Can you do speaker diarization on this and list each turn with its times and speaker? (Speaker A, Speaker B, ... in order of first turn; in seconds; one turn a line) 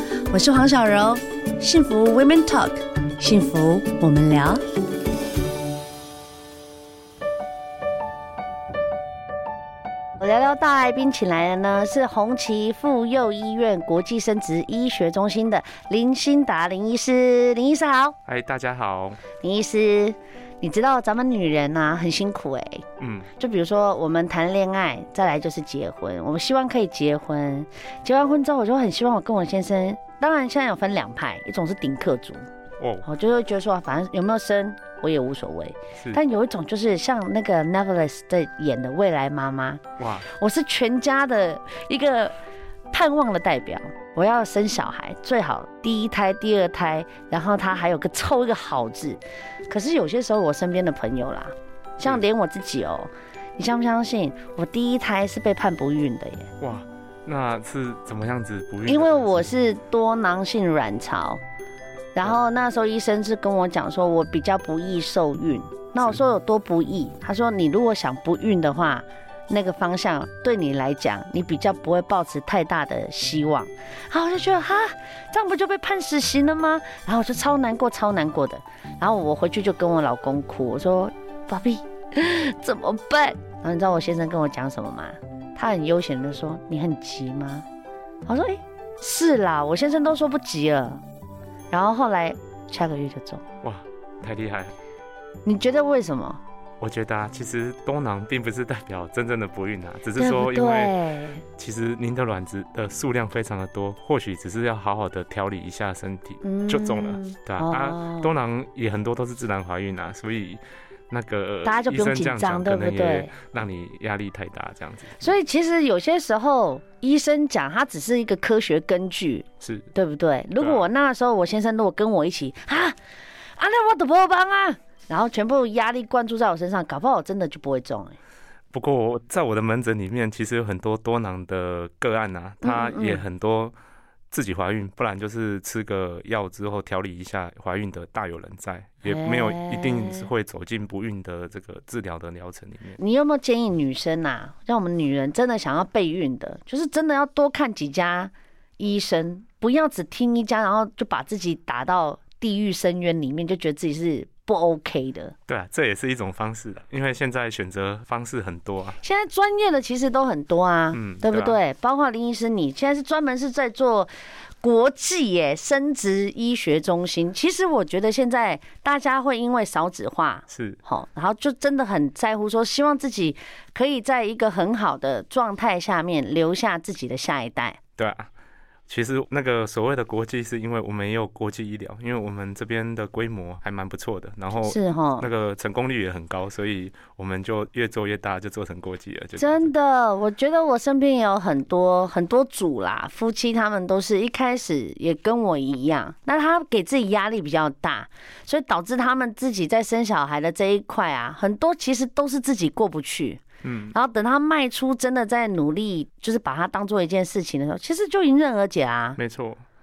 Speaker A: 0.3-4.6
Speaker A: 10.2-18.1
Speaker B: 18.2-19.2
Speaker A: 19.4-22.8
Speaker B: 23.0-23.3
Speaker A: 23.4-32.4
Speaker B: 32.8-33.0
Speaker A: 33.0-42.3
Speaker B: 40.0-40.2
Speaker A: 42.9-56.5
Speaker B: 56.6-59.5
Speaker A: 58.9-61.4
Speaker A: 62.1-87.6
Speaker A: 88.3-91.0
Speaker A: 91.7-93.4
Speaker B: 93.6-94.7
Speaker A: 95.4-96.4
Speaker B: 96.8-100.9
Speaker A: 100.2-101.4
Speaker B: 101.6-115.2
Speaker A: 106.4-108.3
Speaker A: 111.6-113.3
Speaker A: 115.2-123.0
Speaker B: 119.6-119.9
Speaker B: 120.6-120.9
Speaker A: 123.6-128.2
Speaker B: 128.7-133.7
Speaker A: 132.6-133.2
Speaker B: 134.3-143.0
Speaker A: 139.0-140.3
Speaker A: 143.0-155.3
Speaker B: 155.5-159.0
Speaker A: 159.0-177.8
Speaker B: 160.9-161.6
Speaker B: 170.5-170.8
Speaker B: 178.0-178.3
Speaker B: 178.9-189.7
Speaker A: 184.5-185.3
Speaker A: 189.4-209.2
Speaker B: 203.6-203.9
Speaker B: 209.2-209.6